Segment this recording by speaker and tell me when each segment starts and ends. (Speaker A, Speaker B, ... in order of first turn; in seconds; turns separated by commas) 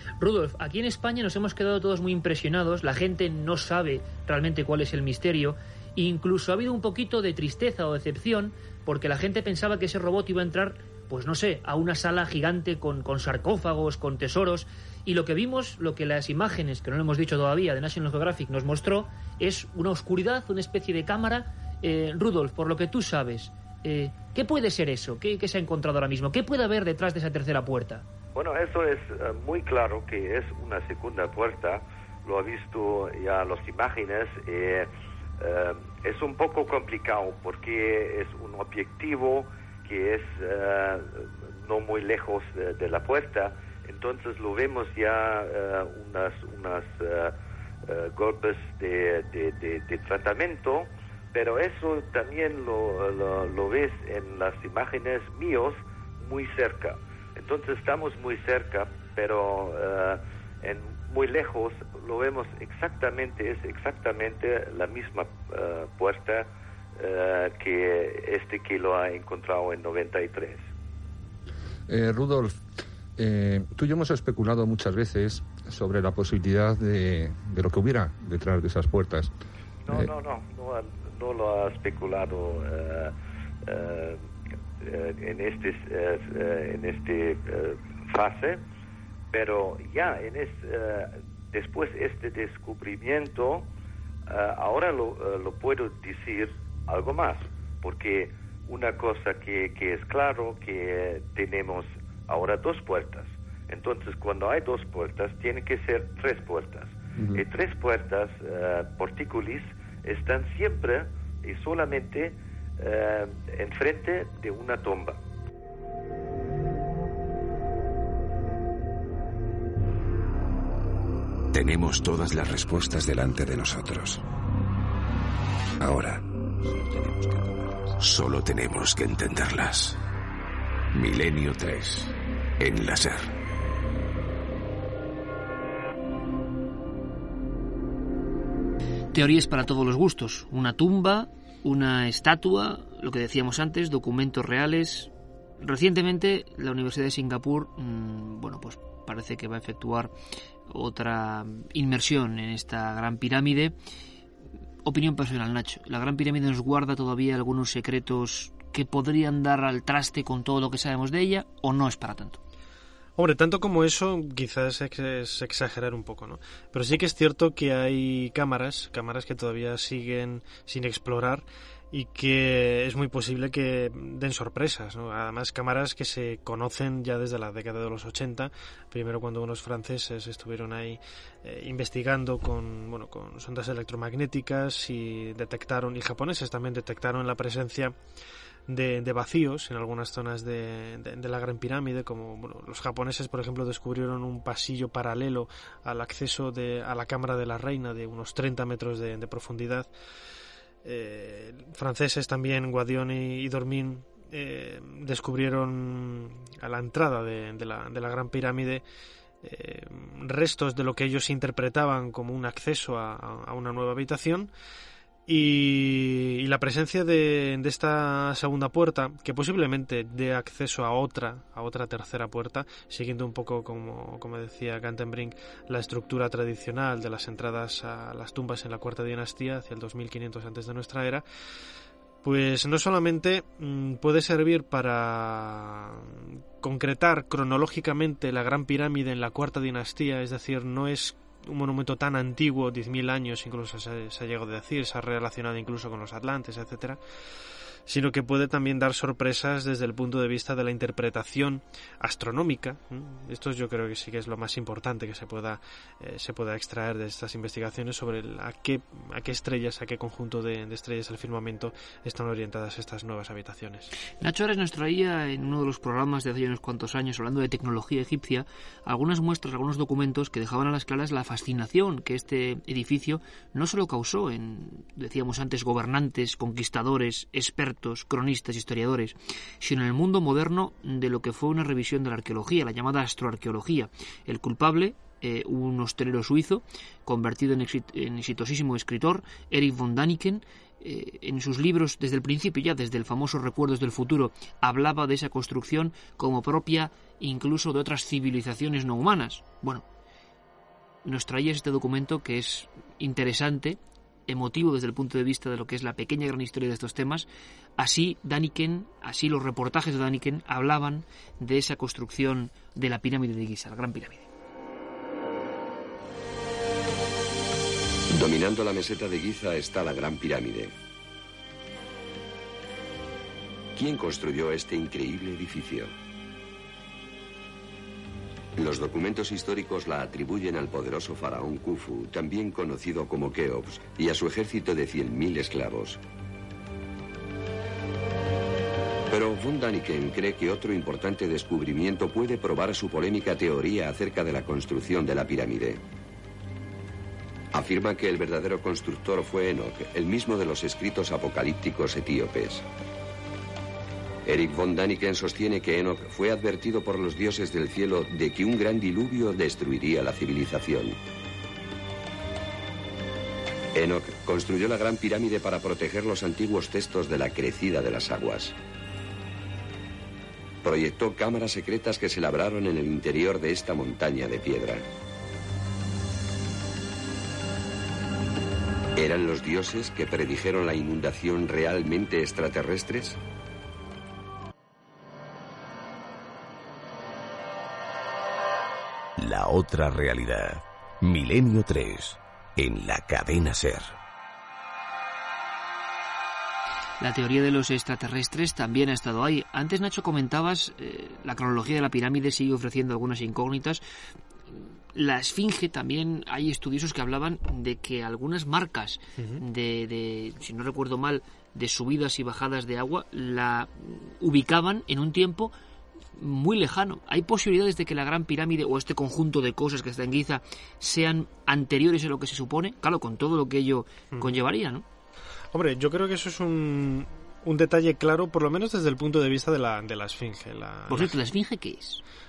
Speaker A: 0.2-28.0, Speaker B: 28.3-34.9, Speaker B: 35.4-47.3, Speaker B: 47.9-66.5, Speaker B: 67.0-70.6, Speaker C: 71.9-72.6, Speaker C: 73.2-79.3, Speaker B: 79.9-83.1, Speaker B: 83.7-84.2, Speaker B: 84.8-88.6, Speaker B: 89.3-93.7, Speaker B: 94.3-115.2, Speaker C: 107.2-107.4, Speaker D: 121.5-124.2, Speaker D: 125.8-130.0, Speaker D: 130.9-133.3, Speaker A: 139.1-150.1, Speaker A: 150.7-153.7, Speaker A: 154.8-162.4, Speaker E: 163.2-187.9, Speaker E: 188.7-199.9, Speaker E: 200.8-208.8, Speaker E: 209.4-214.5, Speaker E: 215.3-231.2, Speaker E: 232.2-247.0, Speaker E: 247.9-263.9, Speaker A: 264.2-299.8, Speaker A: 301.0-307.3, Speaker A: 307.8-314.3, Speaker F: 318.1-320.7, Speaker F: 323.7-325.9, Speaker F: 328.6-336.0, Speaker F: 339.1-345.8, Speaker F: 347.5-352.6, Speaker F: 354.2-361.0, Speaker F: 363.7-368.6, Speaker F: 370.6-374.8, Speaker F: 378.9-383.2, Speaker D: 389.2-393.9, Speaker A: 397.0-403.8, Speaker A: 404.5-415.5, Speaker E: 409.2-409.4, Speaker A: 416.2-424.8, Speaker E: 424.1-424.4, Speaker E: 425.5-431.1, Speaker A: 430.9-432.0